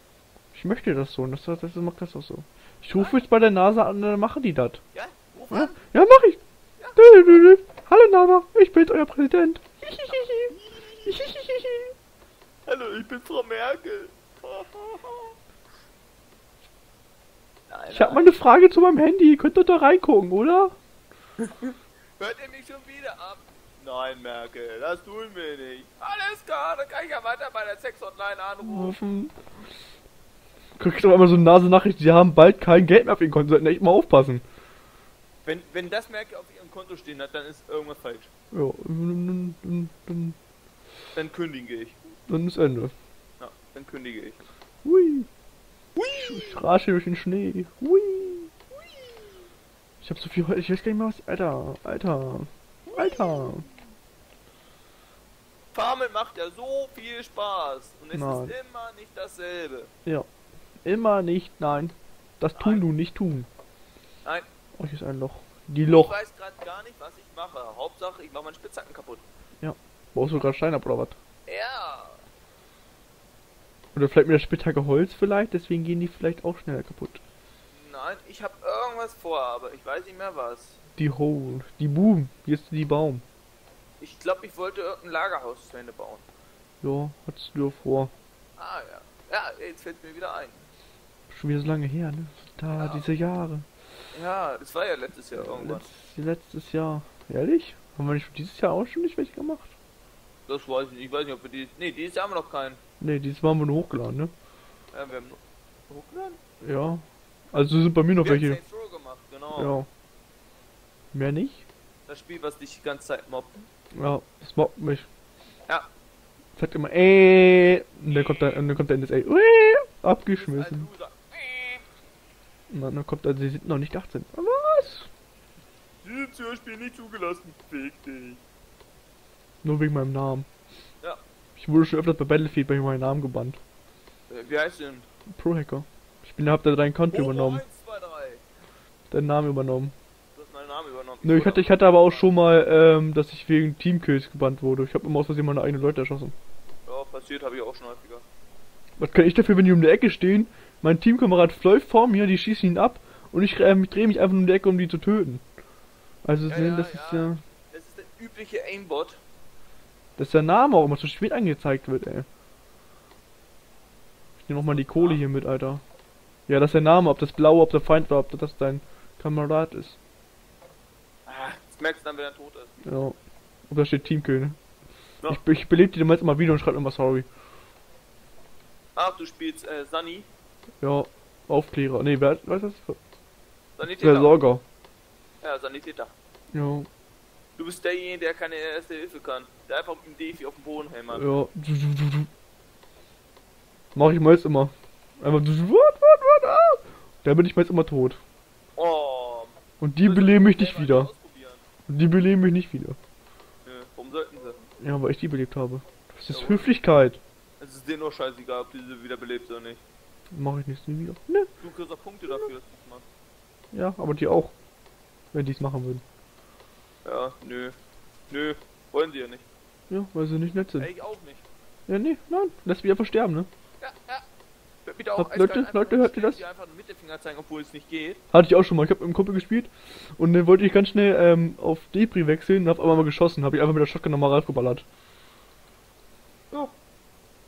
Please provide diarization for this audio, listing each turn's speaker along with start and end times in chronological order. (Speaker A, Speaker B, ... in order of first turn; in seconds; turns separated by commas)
Speaker A: 0.5-4.8, Speaker B: 3.0-3.2, Speaker B: 4.9-5.8, Speaker A: 5.5-6.4, Speaker B: 6.8-7.5, Speaker A: 7.0-10.5, Speaker B: 10.1-11.2, Speaker A: 11.1-11.9, Speaker B: 12.7-15.4, Speaker B: 17.7-18.3, Speaker A: 17.9-20.8, Speaker B: 21.4-29.0, Speaker A: 28.6-29.4, Speaker A: 30.8-34.4, Speaker B: 35.5-38.3, Speaker A: 38.5-40.4, Speaker B: 41.1-42.0, Speaker A: 42.3-42.9, Speaker B: 43.4-44.4, Speaker A: 44.8-45.3, Speaker B: 46.0-46.6, Speaker A: 46.1-48.5, Speaker B: 48.7-49.3, Speaker A: 50.0-53.7, Speaker B: 52.9-53.8, Speaker B: 55.7-59.9, Speaker A: 58.1-58.5, Speaker A: 60.9-63.5, Speaker B: 62.5-62.9, Speaker A: 64.8-66.2, Speaker B: 65.8-69.2, Speaker A: 69.6-71.2, Speaker B: 71.5-72.2, Speaker A: 74.0-77.2, Speaker B: 77.7-80.8, Speaker A: 81.0-83.2, Speaker B: 84.0-86.2, Speaker A: 86.8-88.1, Speaker B: 88.6-90.7, Speaker A: 91.3-93.7, Speaker B: 92.7-93.1, Speaker B: 94.1-95.9, Speaker A: 95.3-99.7, Speaker B: 100.5-102.8, Speaker A: 103.0-104.3, Speaker B: 104.9-106.4, Speaker A: 106.6-108.6, Speaker B: 108.2-109.8, Speaker A: 109.5-109.9, Speaker A: 111.1-111.7, Speaker B: 112.1-113.7, Speaker A: 114.0-115.1, Speaker A: 116.6-120.9, Speaker B: 118.1-118.6, Speaker B: 120.3-121.8, Speaker A: 122.7-125.1, Speaker B: 126.0-128.4, Speaker A: 129.6-130.5, Speaker A: 131.6-133.6, Speaker B: 134.3-135.1, Speaker A: 135.3-137.6, Speaker B: 137.1-138.4, Speaker A: 139.1-139.9, Speaker B: 140.3-142.4, Speaker A: 141.2-146.3, Speaker B: 146.9-148.3, Speaker A: 149.0-155.4, Speaker A: 156.2-157.4, Speaker B: 156.5-159.2, Speaker A: 160.2-162.3, Speaker A: 164.4-165.8, Speaker B: 164.7-165.2, Speaker A: 166.5-170.0, Speaker B: 171.3-172.8, Speaker A: 172.8-173.2, Speaker A: 173.7-174.6, Speaker A: 175.3-177.3, Speaker B: 179.0-180.3, Speaker A: 180.8-183.0, Speaker B: 183.8-184.4, Speaker A: 183.8-184.6, Speaker B: 185.4-186.1, Speaker A: 186.5-186.9, Speaker B: 187.6-191.3, Speaker A: 191.1-192.3, Speaker A: 193.9-198.2, Speaker B: 198.8-201.7, Speaker A: 199.8-201.1, Speaker A: 201.9-203.0, Speaker B: 203.7-204.6, Speaker A: 204.8-207.2, Speaker B: 206.3-206.7, Speaker B: 207.6-209.8, Speaker A: 210.3-211.5, Speaker B: 211.6-213.1, Speaker A: 213.7-214.5, Speaker A: 215.3-216.0, Speaker B: 217.1-217.8, Speaker B: 218.3-219.5, Speaker A: 219.9-220.9, Speaker B: 220.8-221.5, Speaker A: 221.9-223.5, Speaker B: 223.8-224.2, Speaker B: 224.8-228.2, Speaker A: 225.2-226.4, Speaker A: 228.3-234.8